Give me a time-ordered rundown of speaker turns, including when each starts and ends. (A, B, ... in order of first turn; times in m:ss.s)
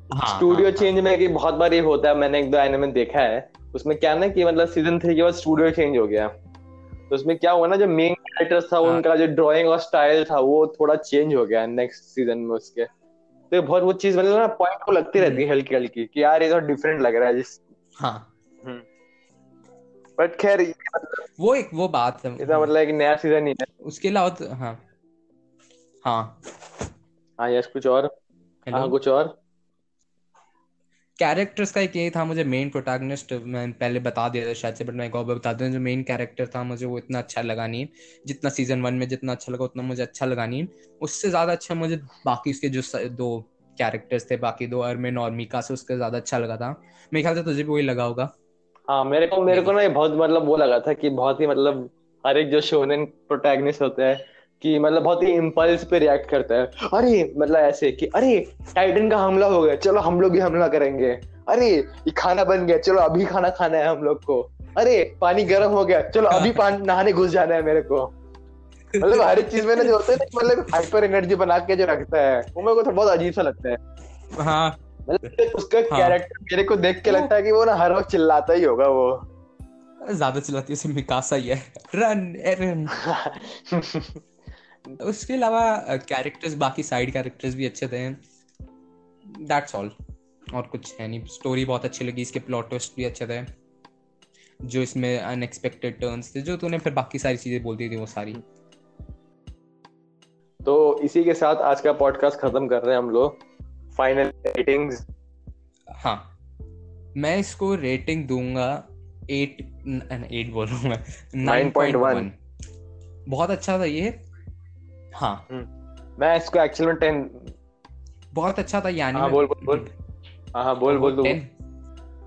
0:00.1-0:00.9 A
0:00.2-0:06.3 B
0:07.1-0:12.9 B
0:13.5-0:17.6 B
0:15.2-0:15.4 A
0:18.0-0:18.3 A
0:20.2-0:21.2 B
0:21.4-0:22.7 A
0:22.4-0:23.7 B
0:23.8-0:24.8 A
0:26.0-0:26.4 A
0:27.4-0:28.1 B
0:28.6-0:28.9 A
0:28.7-0:29.3 B
0:31.2-0:48.3 A
0:48.9-1:08.1 B
1:08.9-1:10.6 A
1:09.0-1:13.8 B
1:14.4-1:14.8 A
1:15.0-1:19.2 B
1:15.9-1:16.2 A
1:20.0-1:23.0 A
1:22.9-1:24.2 B
1:25.0-1:28.2 A
1:29.3-1:29.9 A
1:30.5-1:33.5 A
1:34.6-1:38.4 A
1:40.6-1:43.4 B
1:43.9-1:45.0 B
1:46.0-1:46.3 A
1:47.2-1:52.4 A
1:51.4-1:52.3 B
1:53.3-1:54.2 A
1:55.1-1:55.4 A
1:55.5-1:57.5 B
1:58.3-1:59.9 A
1:59.1-1:59.9 B
2:00.5-2:01.4 B
2:00.9-2:01.5 A